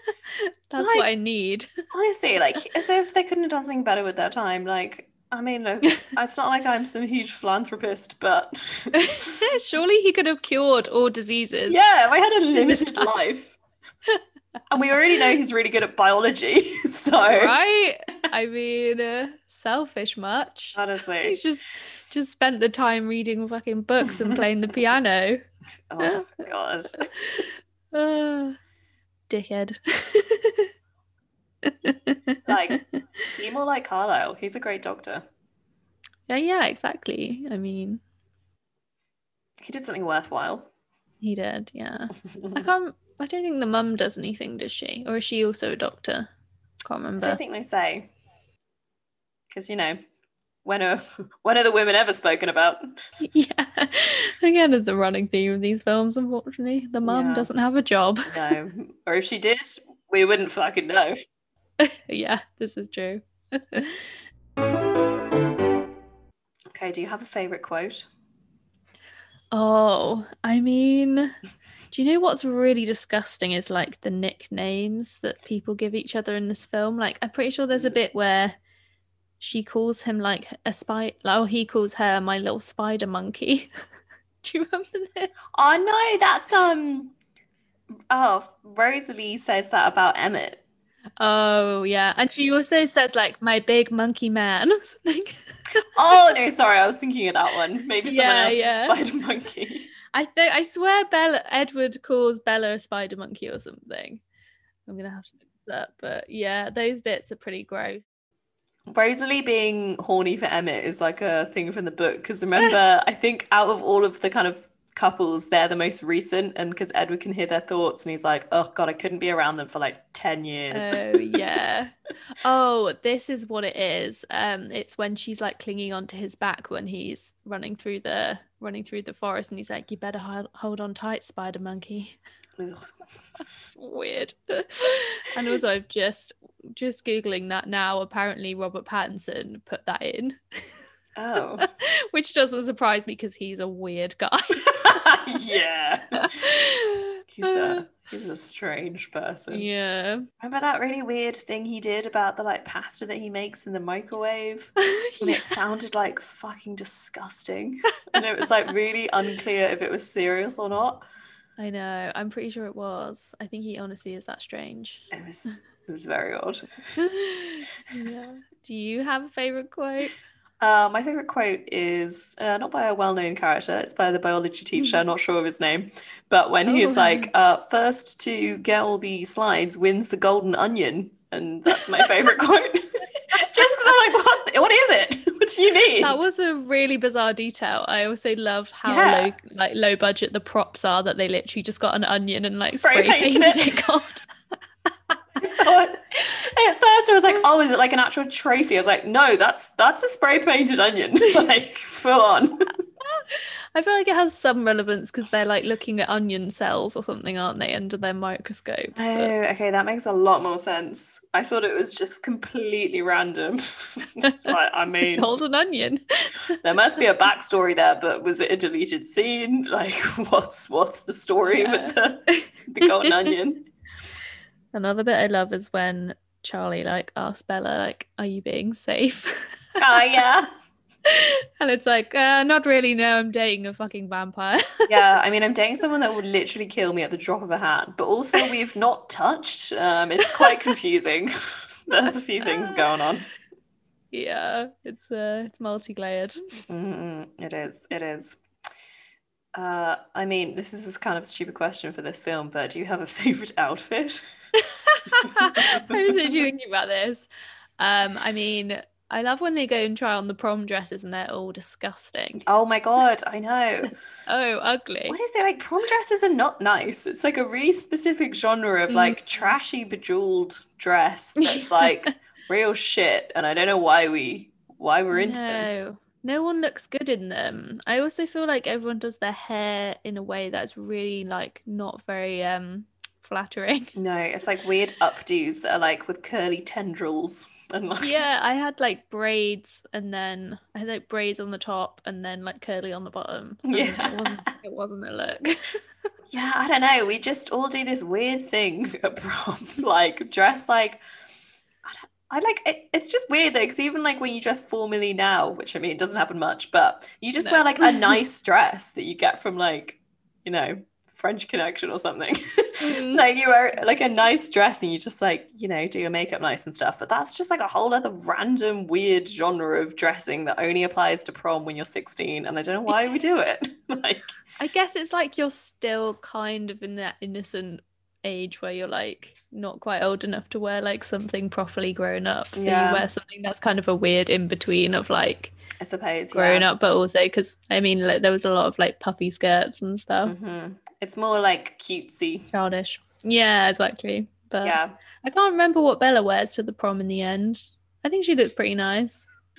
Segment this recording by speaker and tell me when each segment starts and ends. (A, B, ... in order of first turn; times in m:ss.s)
0:00.3-0:01.7 A
0:00.8-0:01.1 B
0:01.9-0:09.5 B
0:09.0-0:11.8 A
0:11.7-0:13.6 B
0:12.5-0:13.1 A
0:14.7-0:17.6 B
0:17.3-0:25.4 A
0:20.8-0:21.4 B
0:24.0-0:24.4 B
0:25.9-0:27.1 B
0:26.0-0:26.3 A
0:27.0-0:28.6 A
0:29.3-0:30.7 A
0:31.6-0:33.0 A
0:32.5-0:32.8 B
0:33.4-0:35.2 B
0:36.3-0:38.0 A
0:39.6-0:40.7 B
0:41.2-0:46.3 A
0:46.8-0:47.4 A
0:47.2-0:48.1 B
0:49.5-0:50.0 B
0:50.6-0:52.9 B
0:53.2-0:58.6 A
0:57.0-0:57.5 B
0:58.3-1:01.2 B
1:01.8-1:04.1 A
1:06.7-1:08.1 B
1:09.5-1:11.4 A
1:11.9-1:18.6 A
1:19.4-1:23.7 A
1:24.4-1:25.3 A
1:25.5-1:27.1 B
1:28.1-1:30.6 B
1:31.2-1:35.9 A
1:36.0-1:39.9 B
1:38.0-1:39.0 A
1:40.1-1:44.2 A
1:44.9-1:48.0 A
1:48.9-2:01.4 B
2:00.7-2:12.2 A
2:12.6-2:12.9 B
2:13.8-2:20.6 A
2:21.2-2:21.7 B
2:21.6-2:25.0 A
2:24.8-2:26.3 B
2:26.2-2:27.9 A
2:27.3-2:29.7 B
2:29.5-2:30.3 A
2:30.4-2:41.0 B
2:34.8-2:35.5 A
2:41.6-2:45.1 A
2:45.1-2:46.9 B
2:47.0-2:50.2 A
2:50.6-3:06.2 B
2:56.7-2:57.3 A
3:06.0-3:14.3 A
3:08.8-3:09.3 B
3:12.7-3:13.9 B
3:15.4-3:22.7 B
3:23.0-3:29.3 A
3:29.0-3:35.3 B
3:34.3-3:34.5 A
3:35.1-3:36.6 A
3:36.6-3:43.7 B
3:41.5-3:43.3 A
3:44.7-3:49.6 A
3:49.8-3:50.5 B
3:51.1-3:55.0 A
3:54.9-4:03.3 B
4:00.4-4:00.7 A
4:04.1-4:06.4 A
4:06.7-4:08.4 B
4:09.5-4:14.3 B
4:14.6-4:17.3 A
4:15.4-4:16.4 B
4:17.8-4:22.4 A
4:22.4-4:24.0 B
4:24.3-4:25.2 A
4:25.1-4:35.7 B
4:28.9-4:29.5 A
4:31.4-4:32.1 A
4:35.1-4:43.9 A
4:44.0-4:48.3 B
4:48.0-4:55.8 A
4:53.7-4:54.4 B
4:56.3-5:01.0 B
5:01.8-5:24.4 B
5:07.4-5:08.1 A
5:12.8-5:13.2 A
5:24.6-5:35.6 A
5:32.6-5:33.1 B
5:35.8-5:36.7 B
5:36.3-5:40.4 A
5:40.2-5:42.5 B
5:42.5-5:49.3 A
5:44.6-5:45.0 B